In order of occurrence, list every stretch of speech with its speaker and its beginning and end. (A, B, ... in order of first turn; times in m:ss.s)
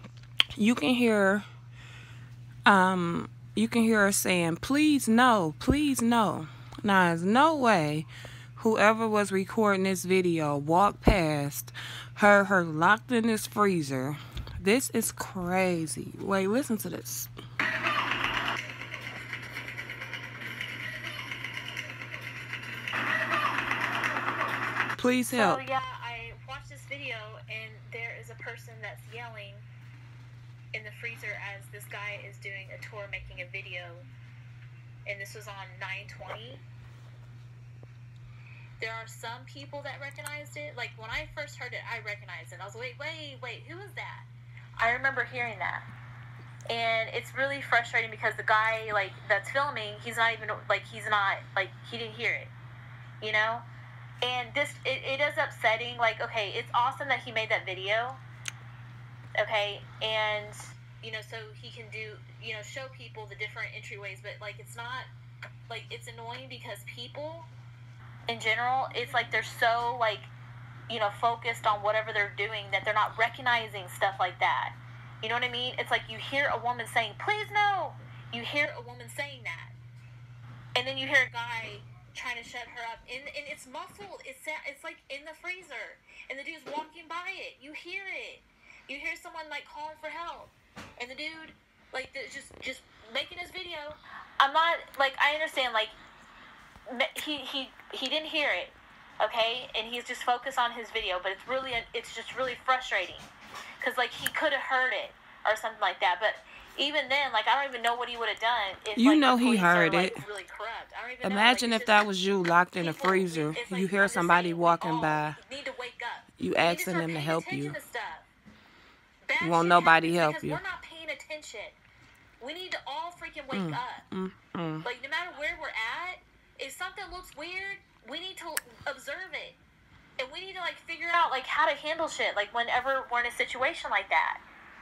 0:00.6-0:01.4 A
0:02.7-0:17.3 A
0:25.0-0:25.6 A
0:25.3-0:29.7 B
0:30.7-0:34.1 B
0:35.1-0:36.6 B
0:38.8-0:44.3 B
0:44.8-0:45.9 B
0:46.7-0:52.5 B
0:53.2-0:53.7 B
0:54.2-0:58.2 B
0:59.4-1:05.1 B
1:05.7-1:07.5 B
1:08.3-1:10.3 B
1:10.9-1:19.8 B
1:20.8-1:35.9 B
1:36.9-1:43.3 B
1:43.8-1:52.1 B
1:49.0-1:50.2 A
1:51.2-1:55.4 A
1:52.8-1:58.3 B
1:56.4-1:57.8 A
1:59.2-2:01.8 B
1:59.4-2:00.6 A
2:02.4-2:04.1 B
2:03.5-2:04.9 A
2:04.8-2:09.6 B
2:10.2-2:14.4 B